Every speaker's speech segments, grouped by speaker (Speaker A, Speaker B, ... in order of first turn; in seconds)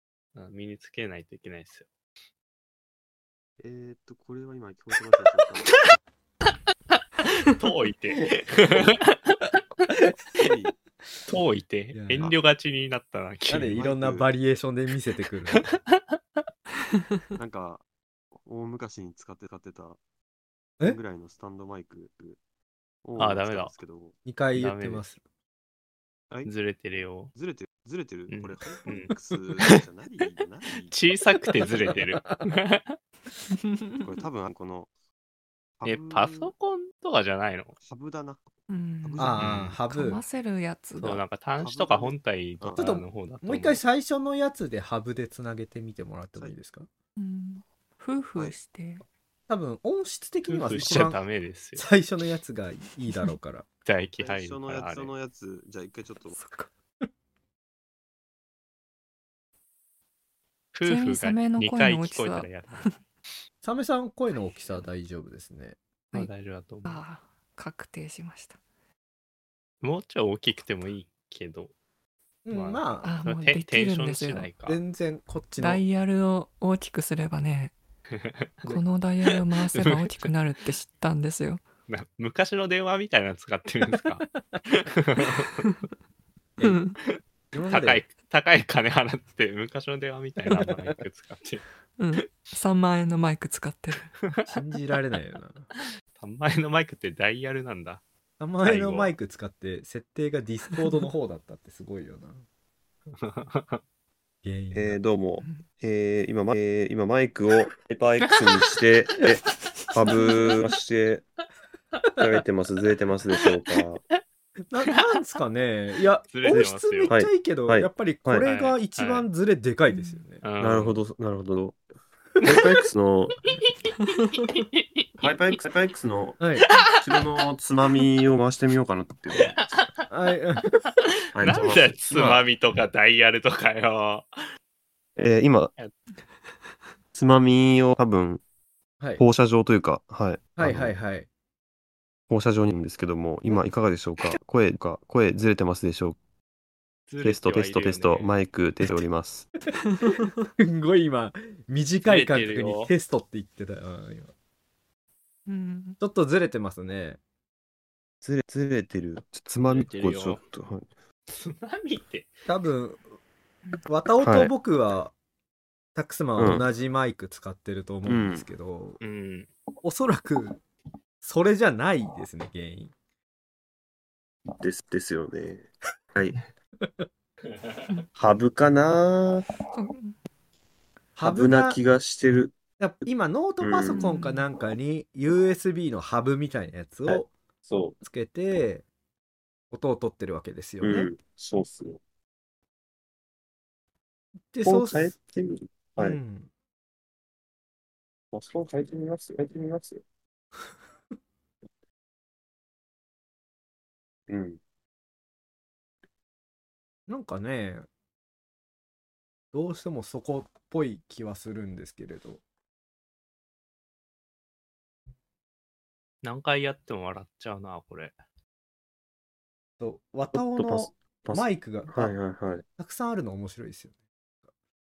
Speaker A: 0.3-1.9, 6.9-9.9, 11.2-13.8, 15.6-16.1, 23.2-23.7, 24.5-25.1, 26.4-27.3, 28.3-29.8, 30.8-33.0, 35.8-37.7, 39.4-39.8, 41.0-43.8, 50.5-51.9, 53.8-55.1, 60.7-62.9, 66.1-67.0, 69.8-71.7, 72.5-74.8, 78.1-80.3, 81.9-85.5, 87.1-91.6, 96.2-98.0, 98.6-99.1, 103.2-103.8, 108.2-108.7, 113.3-113.6, 116.3-117.2, 118.4-119.3, 120.4-121.0, 124.2-125.5, 129.3-130.0, 131.4-134.3, 147.1-148.3, 152.0-152.9, 159.6-160.4, 161.3-162.3, 169.0-169.5, 216.2-218.2
Speaker B: 3.6-5.8, 10.3-10.7, 13.8-14.3, 17.4-20.0, 20.8-22.4, 23.0-24.1, 27.2-31.1, 34.0-34.9, 35.8-36.5, 37.8-38.4, 39.0-39.7, 41.6-42.8, 54.2-56.4, 104.7-111.2, 112.2-114.0, 116.5-118.5, 120.6-121.8, 122.4-123.4, 125.2-126.4, 127.0-129.6, 131.3-132.4, 135.2-135.7, 137.1-138.4, 139.2-140.9, 142.3-146.2, 147.2-149.5, 158.2-160.8, 164.2-164.5, 166.4-166.7, 168.1-168.4, 174.6-176.4, 178.2-179.4, 181.2-182.5, 183.6-184.0, 187.1-187.9, 190.8-192.0, 194.6-196.2, 198.3-200.0, 204.3-204.6, 220.3-222.6
Speaker C: 11.9-12.3, 13.5-15.8, 24.2-25.2, 31.6-32.4, 39.2-40.2, 42.8-46.9, 49.5-51.2, 51.8-53.6, 63.6-65.8, 72.5-73.1, 74.7-75.8, 86.6-86.8, 87.5-88.0, 94.5-95.7, 98.4-102.4, 104.4-105.0, 114.7-120.4, 126.4-126.7, 130.1-131.0, 140.6-141.3, 150.6-154.3, 156.0-157.2, 162.5-163.0, 163.8-165.1, 165.9-169.0, 169.8-170.6, 171.2-172.9, 181.2-181.8, 182.8-187.3, 188.0-188.8, 189.7-191.1, 194.5-195.1, 196.0-196.5, 207.1-207.8, 209.5-212.4, 219.8-222.2, 222.7-223.9
Speaker D: 33.6-33.9, 38.7-41.2, 47.2-49.0, 56.4-56.7, 60.8-62.9, 66.8-68.6, 73.0-74.5, 75.6-77.7, 78.7-81.6, 86.6-87.0, 92.0-94.1, 109.7-110.5, 119.9-120.2, 155.5-156.0, 179.7-180.1, 183.9-184.5